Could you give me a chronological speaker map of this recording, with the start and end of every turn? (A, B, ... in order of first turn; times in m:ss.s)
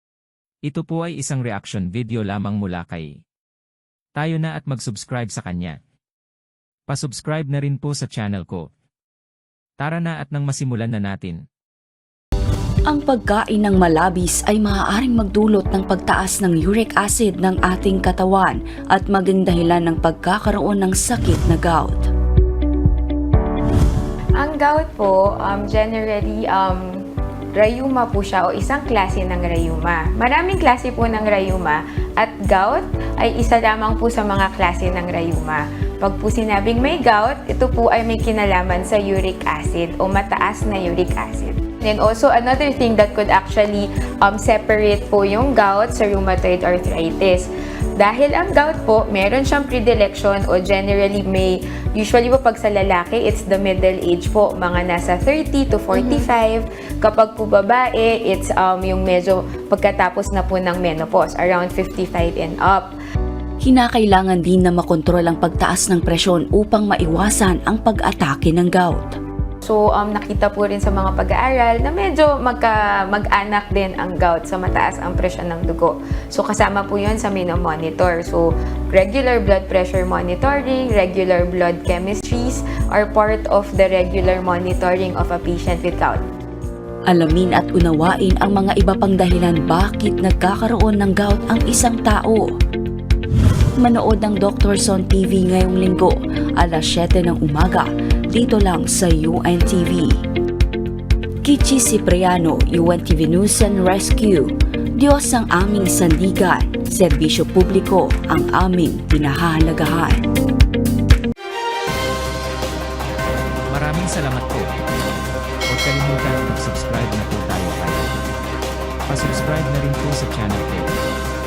0:00.6-0:03.1 A
0:04.2-0:05.7 A
0:06.9-0:08.6 A
0:09.8-0:11.4 A
0:12.9-0:22.1 B
0:24.4-0:27.0 C
0:27.5-1:02.9 C
0:55.9-0:56.3 B
1:03.6-1:09.2 B
1:09.6-1:26.2 C
1:27.1-1:32.6 B
1:33.8-1:40.2 B
1:41.4-1:50.2 B
1:53.7-1:54.7 A
1:55.7-1:58.2 A
1:59.1-2:00.9 A